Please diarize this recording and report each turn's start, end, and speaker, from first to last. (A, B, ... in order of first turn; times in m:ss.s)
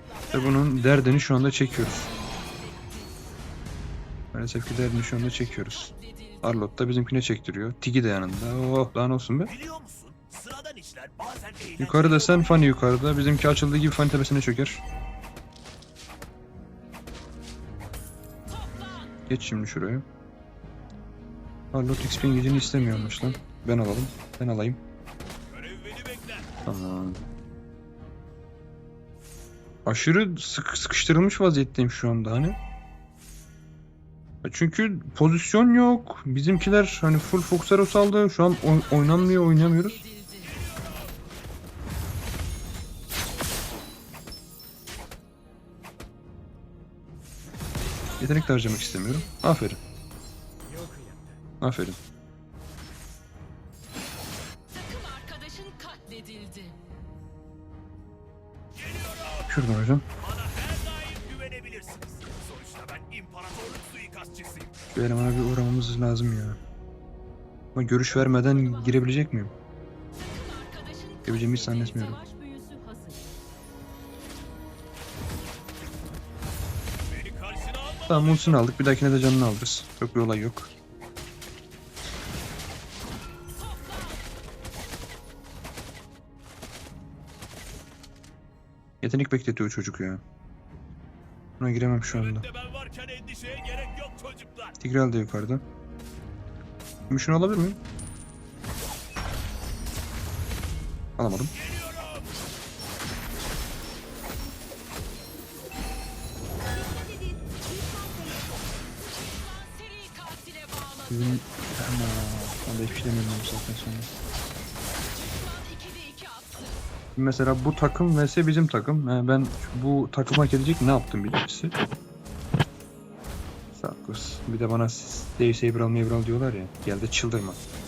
0:00.3-0:02.1 A
0:04.3-0:09.5 A
0:09.5-0:12.3 B
0:11.8-0:14.8 A
0:19.3-0:20.0 A
0:21.7-0:24.8 A
0:25.5-0:26.5 B
0:26.7-0:27.2 A
0:29.8-0:32.6 A
0:34.4-0:40.1 A
0:40.5-0:41.0 B
0:48.2-0:49.8 A
0:50.8-0:51.2 B
0:51.6-0:52.0 A
0:54.8-0:56.8 C
0:58.8-0:59.4 B
0:59.5-1:00.1 A
1:00.2-1:04.7 B
1:04.9-1:06.6 A
1:07.8-1:09.5 A
1:10.7-1:11.2 C
1:11.2-1:12.2 A
1:12.2-1:13.3 C
1:17.1-1:18.5 B
1:18.1-1:20.7 A
1:29.0-1:30.2 A
1:31.6-1:32.4 A
1:32.1-1:34.8 B
1:34.8-1:35.6 A
1:37.1-1:37.8 A
1:41.2-1:41.5 A
1:41.6-1:42.3 B
1:47.0-1:48.3 C
1:49.7-1:51.0 C
1:51.1-1:54.1 A
1:55.3-1:56.7 C
1:57.2-2:01.8 A
2:03.7-2:07.6 A